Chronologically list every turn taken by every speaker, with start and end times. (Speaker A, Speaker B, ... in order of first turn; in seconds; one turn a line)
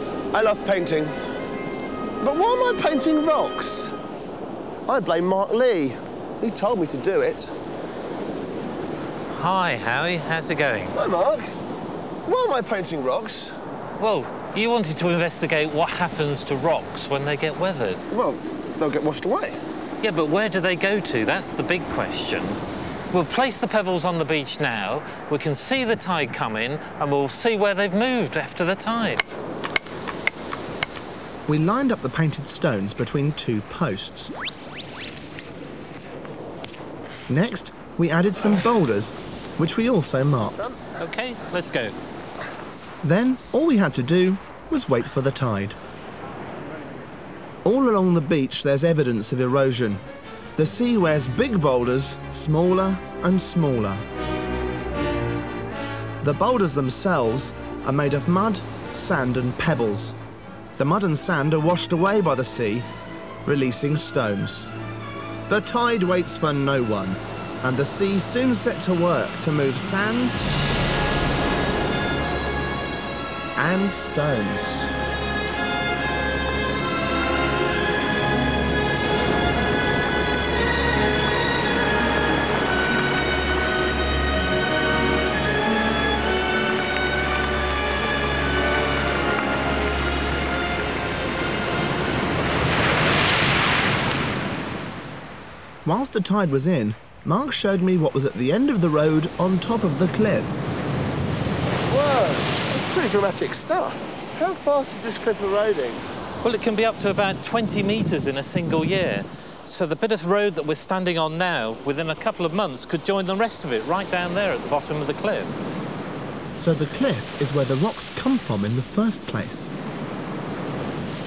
Speaker A: 0.3-1.2
Speaker A: 2.2-3.9
Speaker A: 4.9-7.5
Speaker B: 9.3-11.0
Speaker A: 10.9-11.5
Speaker A: 12.3-13.5
Speaker B: 14.0-18.0
Speaker A: 18.1-19.6
Speaker B: 20.0-22.6
Speaker B: 23.1-29.2
Speaker C: 31.5-34.3
Speaker C: 37.3-40.7
Speaker B: 41.0-42.0
Speaker C: 43.0-45.8
Speaker C: 47.6-50.0
Speaker C: 50.6-54.0
Speaker C: 56.2-60.1
Speaker C: 60.8-62.9
Speaker C: 63.5-64.7
Speaker C: 65.5-70.4
Speaker C: 73.6-74.9
Speaker C: 95.8-100.6
Speaker A: 101.9-106.0
Speaker B: 106.4-115.6
Speaker C: 116.6-119.7